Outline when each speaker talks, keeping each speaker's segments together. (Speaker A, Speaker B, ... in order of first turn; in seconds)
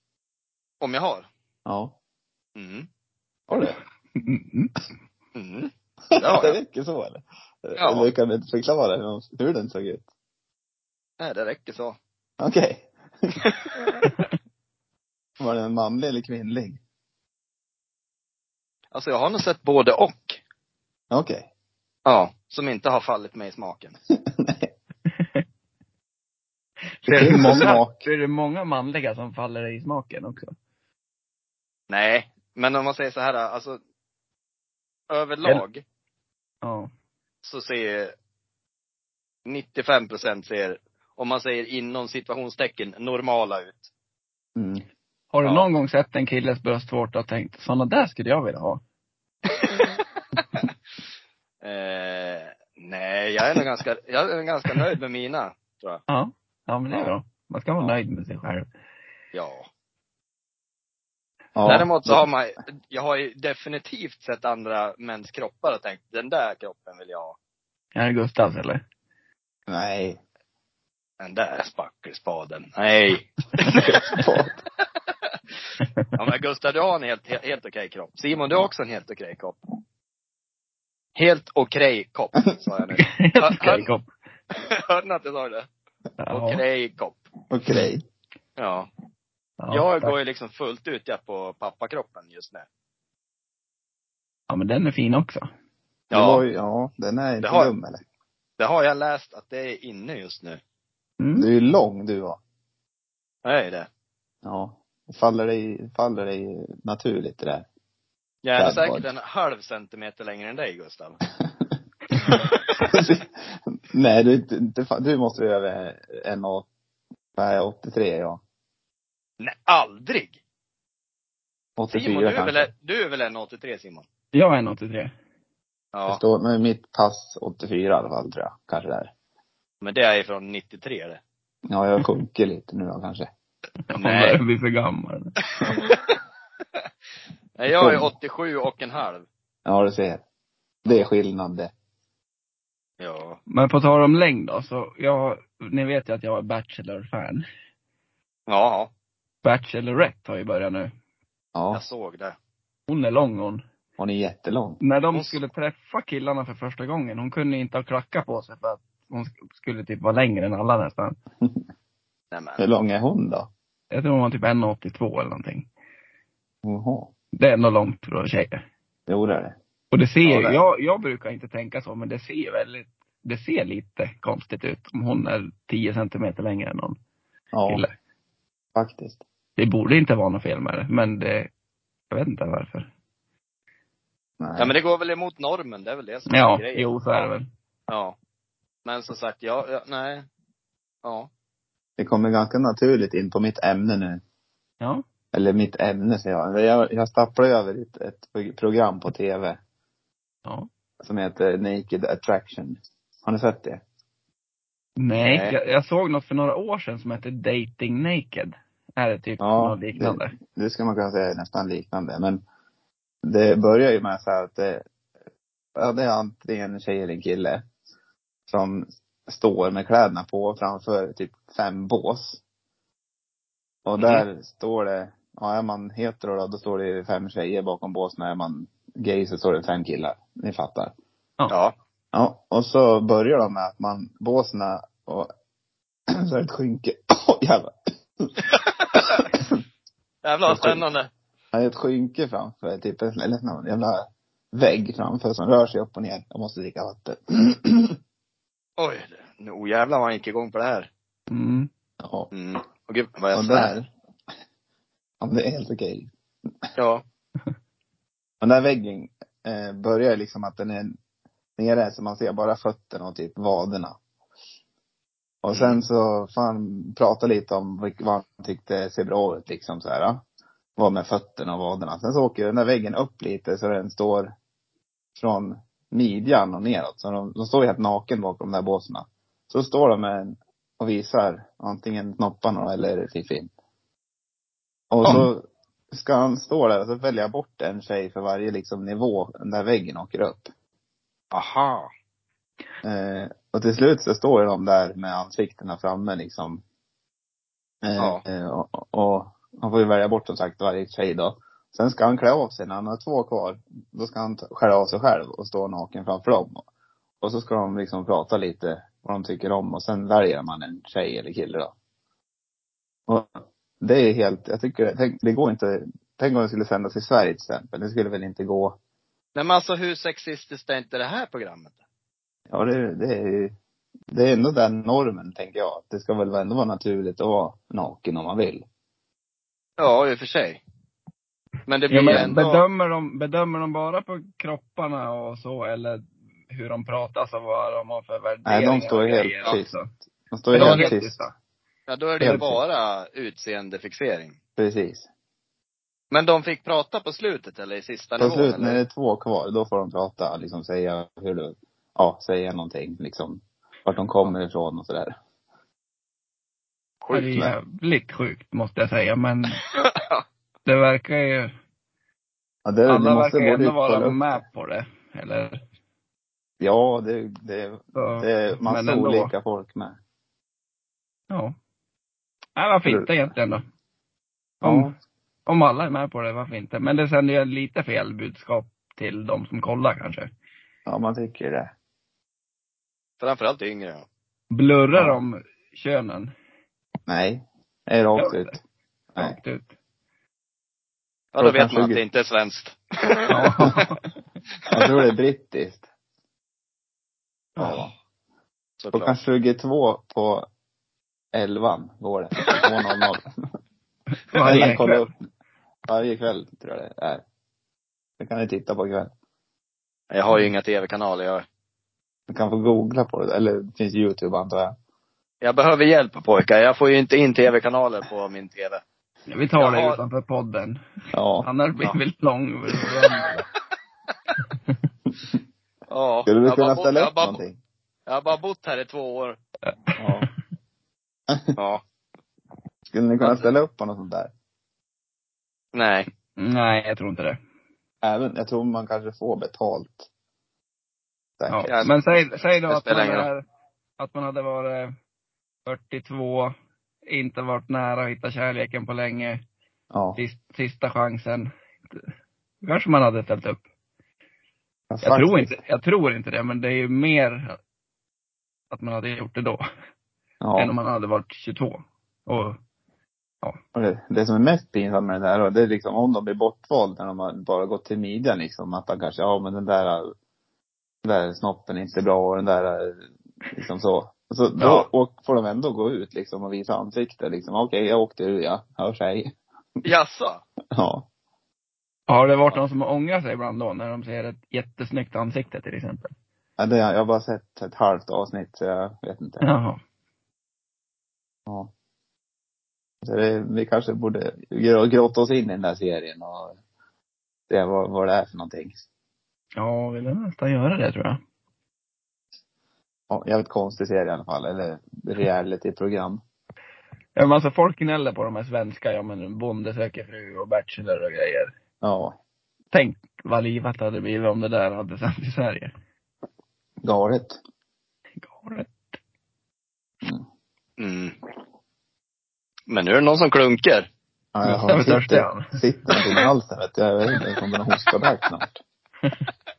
Speaker A: 0.8-1.3, 2.5-2.9, 5.3-6.6, 7.8-8.1, 11.2-12.0, 13.4-13.8, 18.9-20.4, 22.1-23.9, 31.9-33.8, 35.1-35.8, 37.4-38.1, 39.5-43.9, 51.6-56.0, 59.3-59.7, 61.6-67.4, 71.2-74.2, 76.2-79.6, 81.1-83.9, 84.5-85.7, 86.3-87.3, 88.6-88.9, 89.7-92.7, 96.1-96.4, 97.4-97.7, 98.6-100.6, 103.4-103.9, 108.4-111.2, 119.4-120.4, 121.9-124.0, 125.9-126.2, 129.8-131.2, 133.9-134.4, 135.7-135.9, 137.6-139.2, 143.0-143.4, 148.5-148.9, 151.7-152.3, 155.1-155.4, 162.3-162.6, 184.6-187.3, 187.9-188.2, 188.8-190.2, 191.0-191.3, 205.1-205.5, 224.0-224.2, 238.5-239.3, 240.2-241.1, 248.8-250.9, 252.3-253.7, 256.8-257.0, 265.5-265.8, 291.3-291.9, 298.0-298.2, 319.3-321.7, 329.8-330.6, 331.6-332.6, 340.6-340.9, 341.9-344.4, 346.1-348.8, 357.0-357.4, 359.7-360.2, 383.2-384.1, 391.3-393.6, 398.8-399.1, 410.1-411.4, 415.4-418.8, 419.6-420.0, 425.9-427.4, 428.1-429.4, 431.6-431.8, 435.7-436.1, 441.7-443.3, 474.6-474.9, 479.8-480.4, 520.8-521.1, 522.7-523.9
Speaker B: 1.6-1.9, 3.5-3.8, 6.1-10.1, 12.4-13.3, 15.4-16.8, 21.1-21.5, 24.2-24.7, 27.1-28.0, 44.5-44.8, 61.5-62.2, 69.7-70.2, 73.7-74.6, 87.5-88.0, 96.1-98.0, 101.3-102.4, 104.4-107.7, 108.6-109.0, 112.8-116.7, 117.3-118.4, 121.8-122.7, 126.1-129.1, 131.7-133.3, 137.7-138.1, 139.7-140.2, 140.8-141.7, 151.6-151.8, 154.0-154.8, 162.6-163.5, 166.6-167.1, 169.1-169.6, 170.2-170.6, 177.5-177.8, 178.7-179.2, 184.4-184.7, 192.0-194.2, 195.3-199.6, 201.0-203.8, 209.4-212.4, 213.2-214.8, 215.8-217.6, 218.5-222.4, 223.8-230.9, 232.1-235.3, 236.1-238.4, 239.0-239.6, 240.4-240.8, 241.5-248.0, 252.0-252.3, 253.3-253.9, 255.2-256.1, 258.4-260.9, 261.6-263.9, 265.4-270.2, 270.8-274.3, 275.2-283.5, 284.9-290.5, 292.8-296.6, 297.8-306.6, 307.2-311.7, 313.1-318.8, 322.5-323.5, 324.1-328.6, 332.1-332.3, 338.4-339.7, 340.3-341.2, 342.2-342.6, 344.6-345.1, 348.2-355.1, 362.6-364.4, 366.6-370.0, 372.9-373.1, 374.6-374.9, 380.9-381.7, 387.1-388.6, 391.4-392.0, 394.7-395.8, 397.6-397.9, 398.9-400.4, 401.3-403.2, 404.4-405.1, 405.9-407.2, 408.2-409.1, 412.3-414.7, 421.1-421.5, 426.3-427.6, 430.0-430.3, 431.3-431.5, 432.9-434.3, 438.0-440.1, 441.4-441.7, 449.9-450.2, 454.9-455.6, 460.4-460.7, 463.7-470.1, 471.0-479.3, 480.7-481.1, 486.6-489.5, 493.0-496.6, 497.5-498.8, 503.1-506.2, 511.8-512.1, 516.8-517.4, 524.3-528.6
Speaker C: 4.2-4.7, 25.1-25.4, 27.0-30.5, 36.6-36.9, 45.3-48.8, 56.1-58.6, 68.0-68.8, 75.8-76.1, 83.0-84.0, 86.2-86.6, 89.6-90.2, 94.5-95.5, 101.2-101.5, 124.3-125.1, 133.9-135.4, 143.5-147.4, 149.4-150.9, 152.9-153.6, 154.8-161.2, 163.9-165.7, 167.3-168.6, 169.9-177.0, 177.7-177.9, 179.6-181.5, 182.1-182.9, 186.3-187.5, 205.0-210.3, 251.3-251.7, 331.9-339.9, 340.5-341.3, 357.1-359.6, 360.6-361.5, 362.9-365.6, 367.9-369.3, 371.3-371.6, 372.6-373.6, 374.6-374.9, 375.5-380.3, 384.5-386.3, 388.2-388.5, 389.2-389.7, 393.3-394.0, 397.6-397.8, 404.3-405.0, 419.3-420.8, 421.4-423.4, 429.6-430.3, 436.4-437.4, 441.5-443.4, 444.0-444.9, 445.6-446.5, 447.1-449.4, 450.1-452.0, 452.6-453.6, 455.0-457.6, 458.7-459.6, 460.6-462.6, 482.1-486.1, 489.4-489.8, 499.6-501.2, 507.1-511.5, 512.7-515.7, 518.2-518.8, 524.4-525.5